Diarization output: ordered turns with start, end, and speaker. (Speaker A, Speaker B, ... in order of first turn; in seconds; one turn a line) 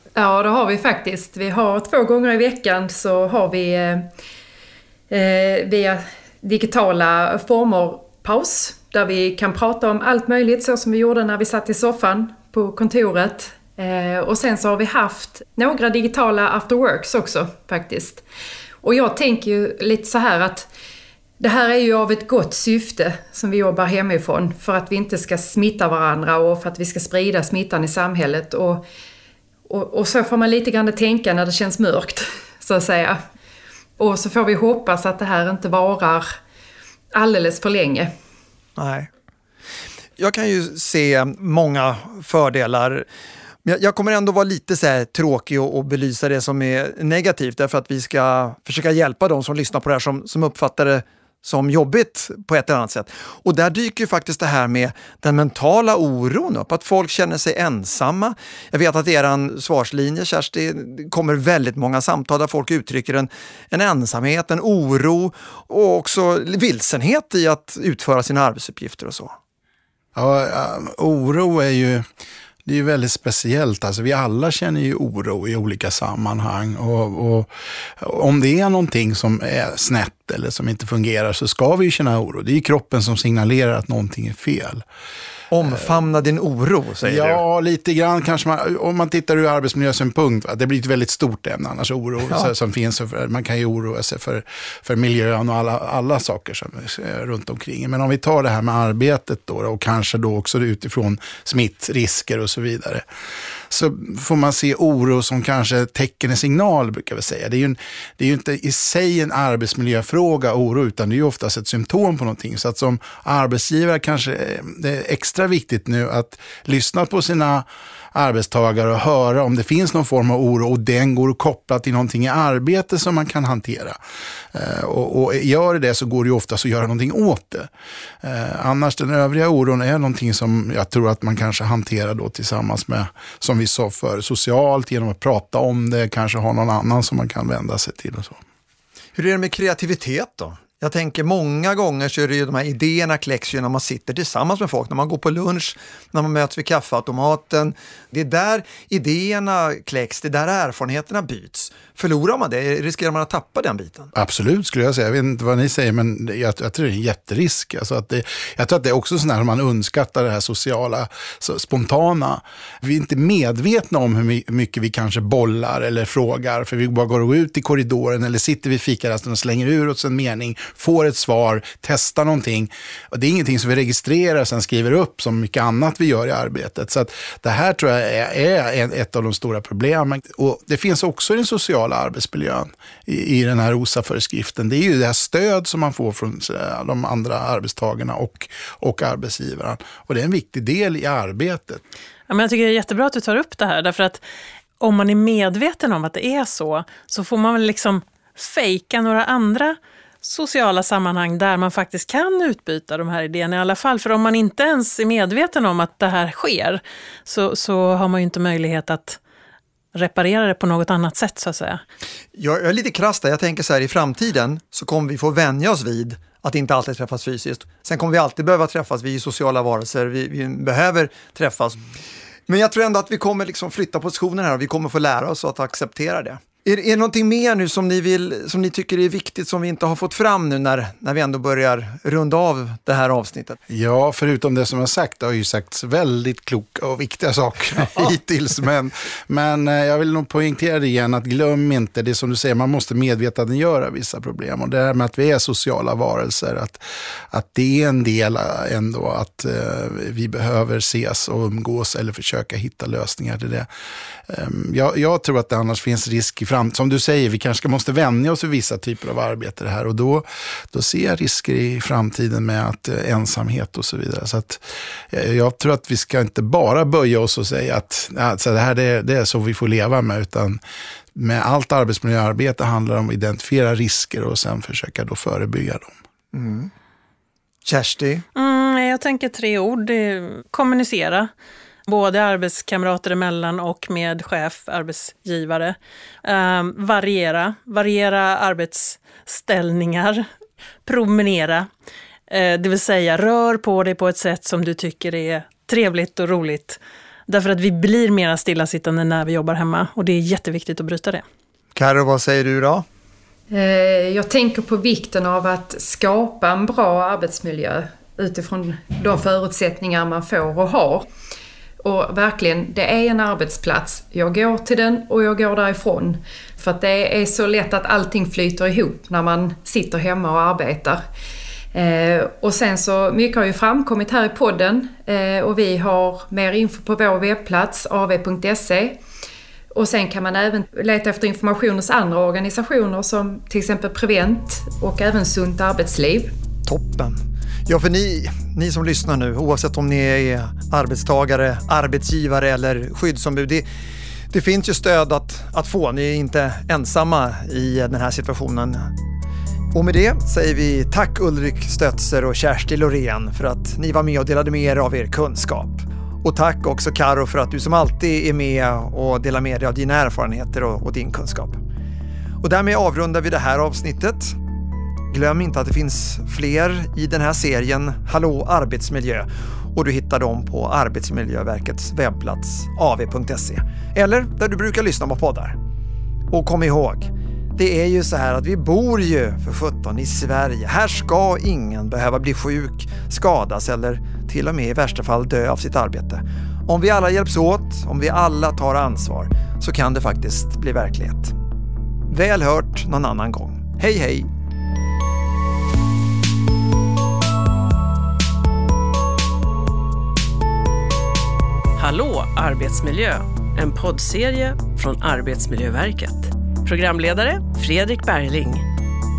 Speaker A: 0.2-4.1
Speaker A: 5.1-18.2
Speaker A: 18.8-20.7
Speaker A: 21.4-28.8
Speaker A: 29.7-33.2
Speaker A: 34.0-36.3
Speaker A: 37.1-38.1
Speaker B: 38.8-39.1
Speaker B: 40.2-43.1
Speaker B: 43.6-69.3
Speaker C: 70.2-72.0
Speaker C: 72.7-84.8
Speaker B: 85.5-87.4
Speaker C: 87.0-103.0
Speaker C: 103.7-124.0
Speaker C: 124.5-127.7
Speaker C: 128.2-138.4
Speaker B: 139.2-154.1
Speaker C: 154.2-191.8
Speaker D: 192.3-194.2
Speaker D: 194.8-209.2
Speaker D: 209.9-211.8
Speaker B: 212.3-221.8
Speaker B: 222.5-233.6
Speaker C: 233.7-253.7
Speaker B: 237.8-238.6
Speaker C: 254.3-270.6
Speaker C: 271.1-276.0
Speaker B: 276.3-276.7
Speaker B: 277.6-278.2
Speaker D: 278.4-281.3
Speaker D: 281.9-290.3
Speaker D: 290.9-291.7
Speaker D: 292.3-301.2
Speaker B: 301.8-302.9
Speaker A: 303.5-311.1
Speaker A: 311.8-321.0
Speaker A: 321.7-329.0
Speaker A: 329.7-336.3
Speaker B: 336.7-343.7
Speaker B: 344.3-348.9
Speaker B: 349.7-361.6
Speaker B: 362.4-364.4
Speaker B: 365.1-375.6
Speaker B: 376.3-391.4
Speaker B: 392.1-394.3
Speaker E: 401.8-408.6